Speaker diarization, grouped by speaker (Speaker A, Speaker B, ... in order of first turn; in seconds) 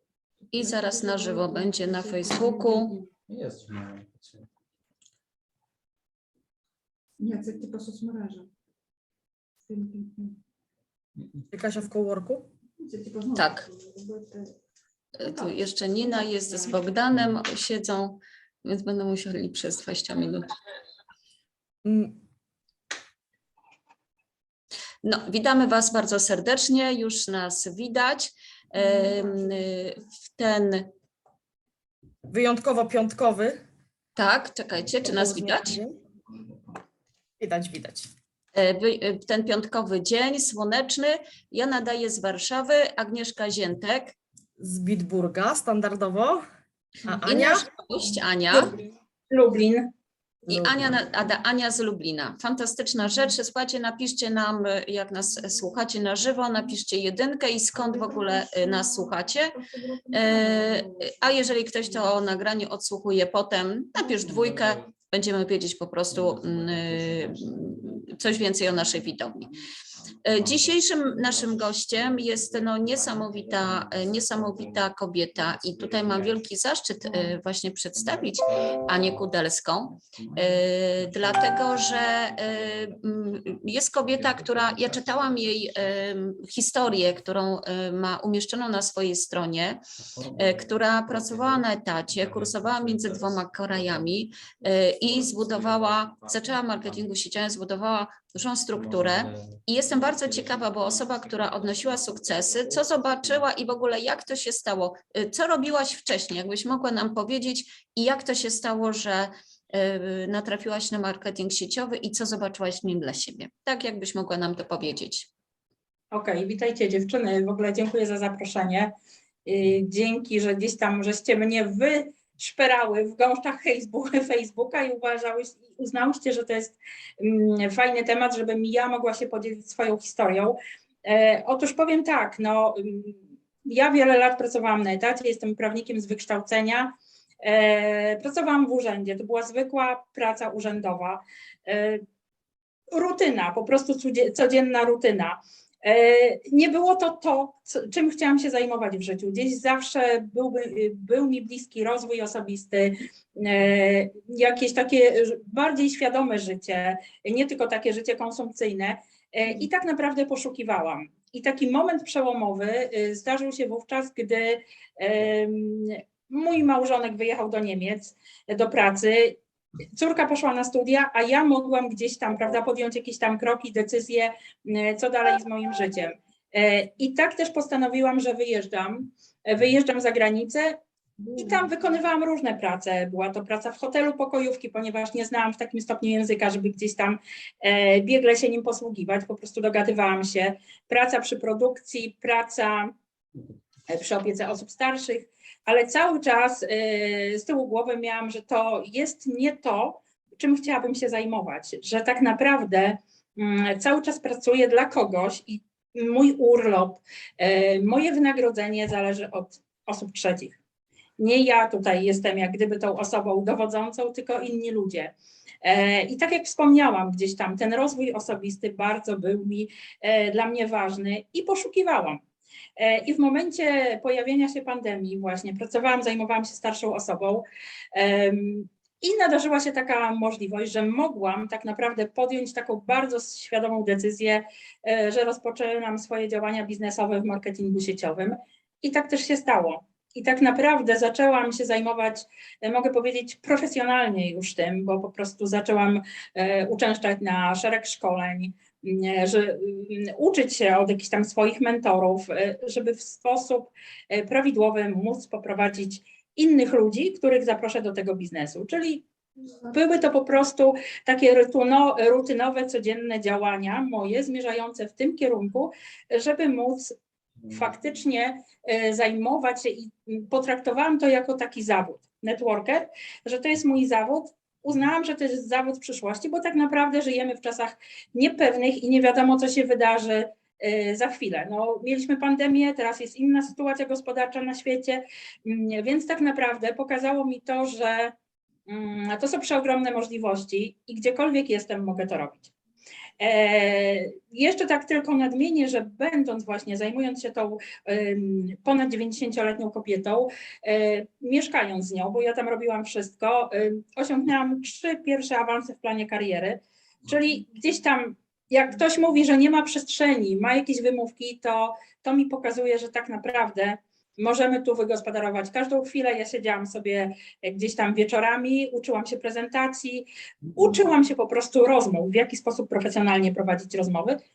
Speaker A: 0.4-3.1, 7.2-8.5, 9.7-10.4, 12.8-14.6, 15.2-16.8, 55.4-55.7, 57.8-62.2, 181.2-181.7
Speaker B: 0.5-3.0, 13.3-13.7, 15.2-20.5, 25.0-30.9, 34.2-35.8, 38.5-44.1, 47.1-48.8, 50.5-59.6, 60.1-69.5, 70.2-89.8, 90.4-115.3
Speaker C: 3.3-4.5, 64.2-64.9, 66.1-68.3, 70.3-76.4, 78.0-79.2, 80.0-86.0, 90.0-97.1, 98.7-103.5
Speaker D: 11.5-12.5, 21.9-22.2, 32.3-33.6, 35.0-36.0, 37.4-38.1, 44.6-46.4, 47.0-47.7, 50.5-50.9
Speaker E: 49.3-49.9, 116.1-118.9, 119.5-142.0, 142.9-169.4, 170.0-180.8, 181.4-192.9, 193.9-210.6, 211.2-222.2, 222.8-259.1, 259.7-267.0, 267.5-288.1, 288.7-292.5, 293.2-324.2